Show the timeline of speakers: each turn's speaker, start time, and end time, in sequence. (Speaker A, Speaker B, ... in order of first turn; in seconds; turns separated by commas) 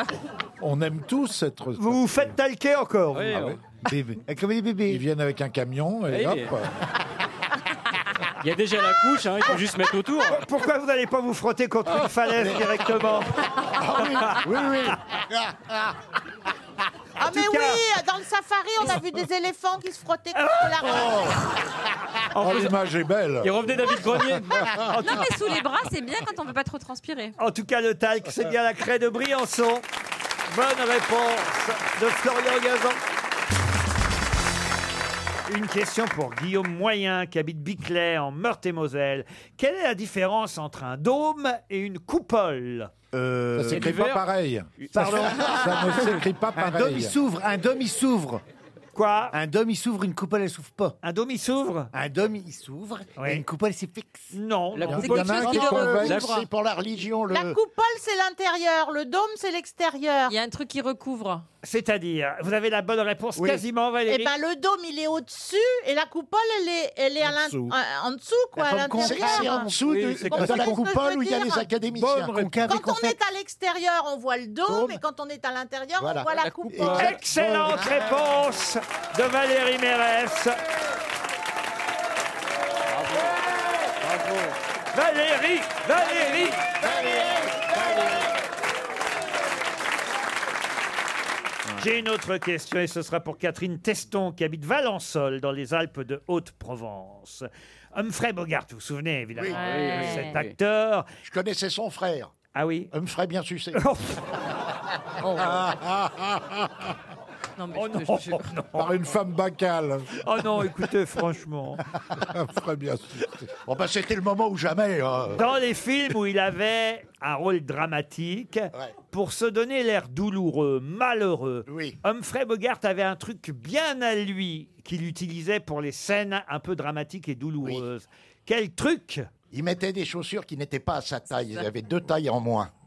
Speaker A: 0.6-2.4, Speaker B: 1.8-3.4, Speaker C: 3.1-3.6, Speaker A: 3.3-3.6, Speaker D: 3.9-5.0, Speaker A: 4.9-6.9, Speaker C: 6.1-6.5, Speaker C: 8.4-10.4, Speaker B: 10.3-14.4, Speaker E: 13.7-15.7, Speaker A: 14.5-14.9, Speaker F: 17.2-21.4, Speaker B: 17.2-17.8, Speaker B: 20.4-21.1, Speaker E: 20.9-21.2, Speaker C: 22.3-22.7, Speaker A: 22.4-25.1, Speaker C: 23.4-24.9, Speaker G: 24.9-27.4, Speaker B: 27.4-29.9, Speaker B: 30.5-33.0, Speaker B: 35.5-42.9, Speaker D: 43.1-44.0, Speaker A: 43.6-47.2, Speaker C: 43.7-44.2, Speaker C: 44.8-45.3, Speaker D: 45.0-48.4, Speaker B: 45.0-45.3, Speaker B: 49.0-49.4, Speaker D: 49.3-51.0, Speaker B: 51.0-51.9, Speaker D: 51.9-54.3, Speaker B: 53.2-53.4, Speaker B: 54.3-55.0, Speaker C: 54.8-56.5, Speaker A: 54.9-56.2, Speaker G: 55.0-56.4, Speaker E: 55.2-57.6, Speaker F: 57.3-60.4, Speaker G: 60.3-61.5, Speaker B: 61.6-64.3, Speaker F: 64.1-71.7, Speaker A: 67.2-67.7, Speaker D: 68.6-69.7, Speaker E: 69.0-72.3, Speaker C: 69.9-70.5, Speaker D: 70.3-70.8, Speaker A: 71.9-72.8, Speaker D: 72.2-73.2, Speaker F: 72.7-77.1, Speaker E: 74.7-75.0, Speaker E: 76.0-77.0, Speaker A: 76.6-78.1, Speaker C: 76.8-77.2, Speaker B: 77.0-80.6, Speaker C: 83.0-83.3, Speaker C: 84.0-84.5, Speaker B: 84.9-86.6, Speaker E: 86.8-87.6, Speaker B: 91.8-101.1, Speaker G: 99.5-100.4, Speaker C: 99.5-100.5, Speaker E: 101.2-102.3, Speaker B: 102.5-102.9, Speaker E: 102.9-103.8, Speaker B: 103.8-104.3, Speaker G: 105.2-105.8, Speaker E: 105.4-106.1, Speaker G: 107.6-108.5, Speaker B: 107.7-108.9, Speaker A: 108.8-110.2, Speaker B: 110.2-111.8, Speaker A: 112.2-113.5, Speaker E: 113.7-115.4, Speaker B: 115.3-129.3, Speaker E: 121.7-122.0, Speaker E: 129.5-132.7